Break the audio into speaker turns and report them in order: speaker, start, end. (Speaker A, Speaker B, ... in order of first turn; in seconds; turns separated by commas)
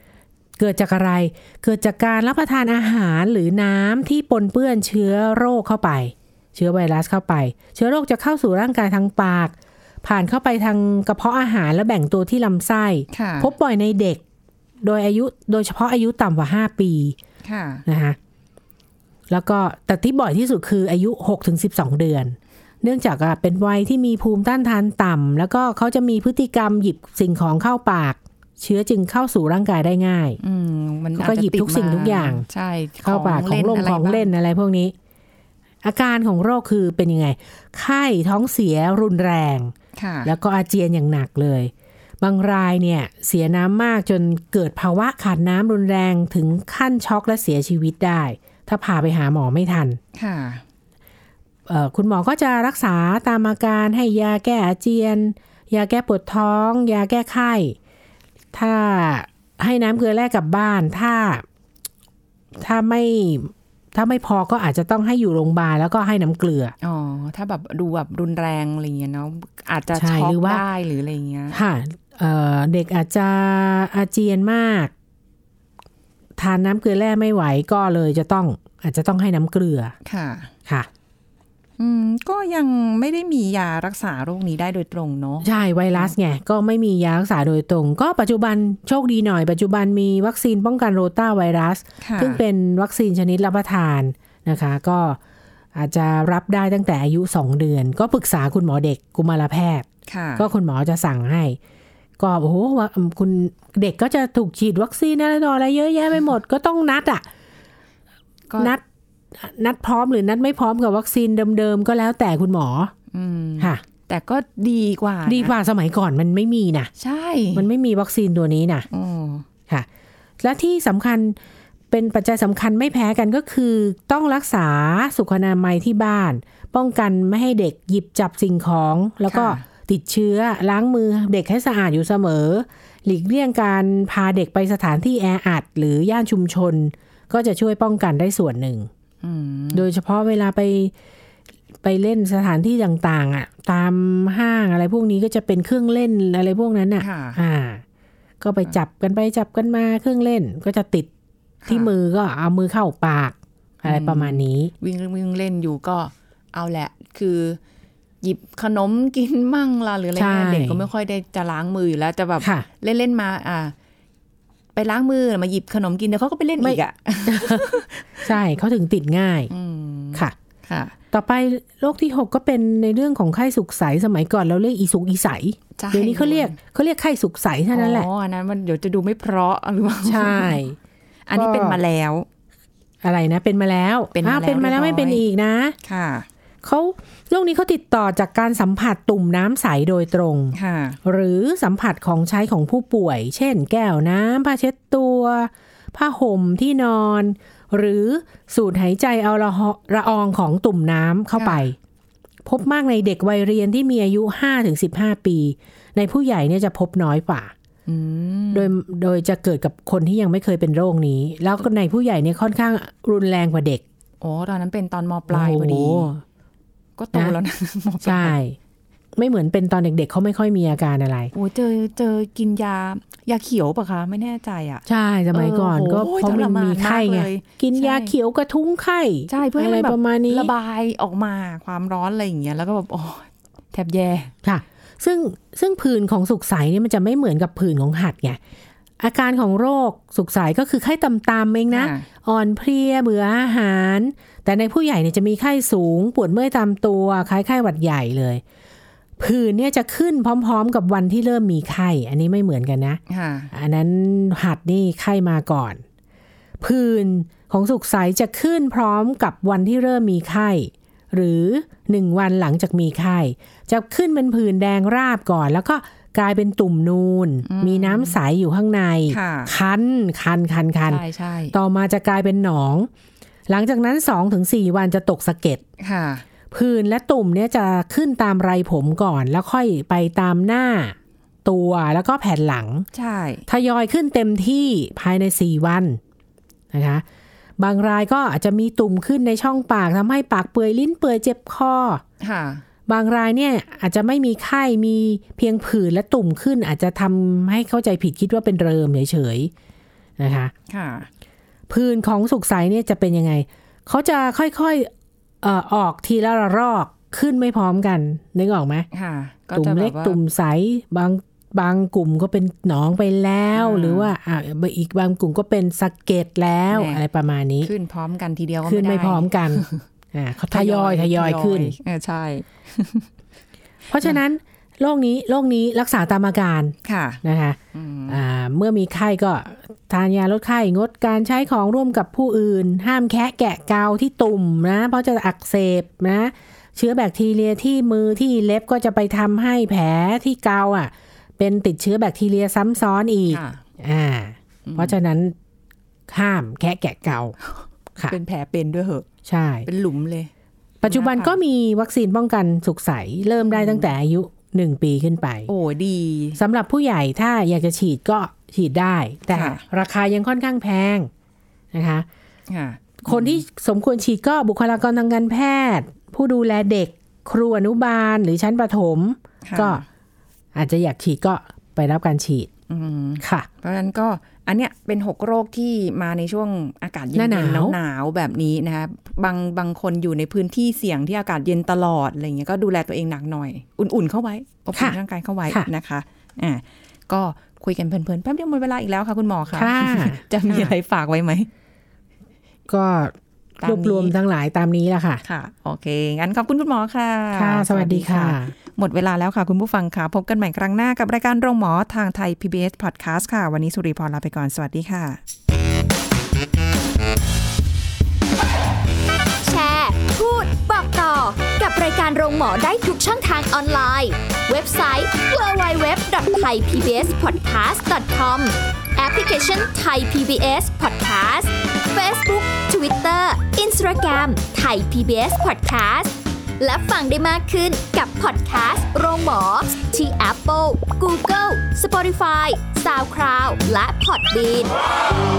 Speaker A: 0.6-14.2, Speaker B: 13.1-13.5, Speaker A: 14.8-17.2, Speaker B: 17.4-17.9, Speaker A: 17.9-18.2, Speaker A: 19.3-30.4, Speaker B: 30.4-34.3, Speaker A: 31.2-32.5, Speaker A: 33.0-34.9, Speaker A: 35.8-39.7, Speaker B: 40.0-40.3, Speaker A: 40.2-50.0, Speaker B: 50.1-50.6, Speaker A: 51.7-57.8, Speaker A: 58.5-61.4, Speaker A: 62.5-66.7, Speaker B: 66.8-71.6, Speaker A: 69.9-70.6, Speaker A: 71.5-74.9, Speaker A: 76.4-79.9, Speaker B: 80.0-80.5, Speaker B: 81.8-86.1, Speaker A: 85.4-95.2, Speaker B: 92.0-92.4, Speaker A: 95.8-101.6, Speaker B: 100.1-100.5, Speaker A: 102.2-107.2, Speaker A: 109.4-112.9, Speaker B: 113.1-115.5, Speaker A: 115.2-116.9, Speaker B: 117.0-117.7, Speaker A: 117.5-118.9, Speaker B: 118.9-119.5, Speaker A: 120.4-121.4, Speaker A: 121.9-138.9, Speaker B: 129.3-129.6, Speaker B: 139.2-139.9, Speaker A: 139.7-140.9, Speaker A: 141.8-147.8, Speaker B: 147.0-147.4, Speaker A: 148.4-151.1, Speaker B: 151.6-151.9, Speaker A: 151.7-154.7, Speaker B: 153.8-157.6, Speaker B: 158.2-163.7, Speaker A: 160.2-160.8, Speaker A: 162.4-162.7, Speaker B: 164.8-168.3, Speaker A: 166.6-167.7, Speaker A: 168.2-169.5, Speaker B: 169.5-170.9, Speaker A: 171.1-178.1, Speaker B: 175.8-176.6, Speaker B: 177.7-180.6, Speaker A: 180.0-180.8, Speaker B: 181.3-182.3, Speaker A: 181.3-181.8, Speaker A: 183.0-185.8, Speaker B: 184.2-185.2, Speaker B: 185.8-186.3, Speaker A: 186.6-201.8, Speaker B: 190.5-191.0, Speaker B: 201.4-201.7, Speaker A: 202.4-207.5, Speaker B: 207.9-208.7, Speaker A: 208.5-213.8, Speaker B: 214.2-216.1, Speaker A: 215.3-216.2, Speaker B: 217.0-218.3, Speaker A: 218.0-218.6, Speaker A: 219.2-221.3, Speaker B: 221.3-228.1, Speaker A: 224.9-230.5, Speaker B: 229.3-234.3, Speaker A: 234.4-238.4, Speaker A: 239.0-248.4, Speaker B: 241.7-242.1, Speaker A: 249.2-253.0, Speaker B: 253.1-253.5, Speaker A: 253.5-255.8, Speaker A: 256.6-272.9, Speaker B: 267.4-268.2, Speaker B: 269.1-269.5, Speaker B: 270.9-271.6, Speaker A: 273.5-275.6, Speaker B: 275.8-276.2, Speaker A: 276.5-282.9, Speaker B: 282.9-283.4, Speaker A: 283.5-286.0, Speaker A: 286.7-287.0, Speaker A: 287.6-292.0, Speaker B: 292.2-292.6, Speaker A: 292.9-299.5, Speaker A: 300.2-300.5, Speaker B: 300.7-301.1, Speaker A: 301.7-304.9, Speaker A: 305.4-308.9, Speaker B: 308.9-310.2, Speaker A: 309.5-317.7, Speaker B: 313.6-314.1, Speaker B: 316.7-317.0, Speaker B: 317.6-319.8, Speaker A: 318.6-321.8, Speaker B: 320.5-323.1, Speaker A: 323.9-345.4, Speaker B: 326.8-327.2, Speaker B: 327.7-328.2, Speaker B: 343.3-343.6, Speaker B: 344.7-345.0, Speaker A: 346.1-347.4, Speaker B: 348.1-349.1, Speaker A: 349.3-349.7, Speaker B: 349.6-350.3, Speaker A: 350.8-355.5, Speaker B: 350.8-351.4, Speaker B: 353.4-353.9, Speaker B: 355.5-356.4, Speaker A: 356.4-361.1, Speaker B: 359.3-359.6, Speaker A: 361.7-362.1, Speaker B: 362.5-363.4, Speaker A: 363.0-369.8, Speaker B: 369.4-369.9, Speaker A: 370.6-372.5, Speaker B: 372.7-391.5, Speaker A: 373.2-373.5, Speaker A: 377.1-377.8, Speaker A: 389.5-390.7, Speaker A: 392.7-395.2, Speaker B: 393.6-394.1, Speaker B: 395.2-405.2, Speaker A: 397.3-398.5, Speaker C: 409.4-434.7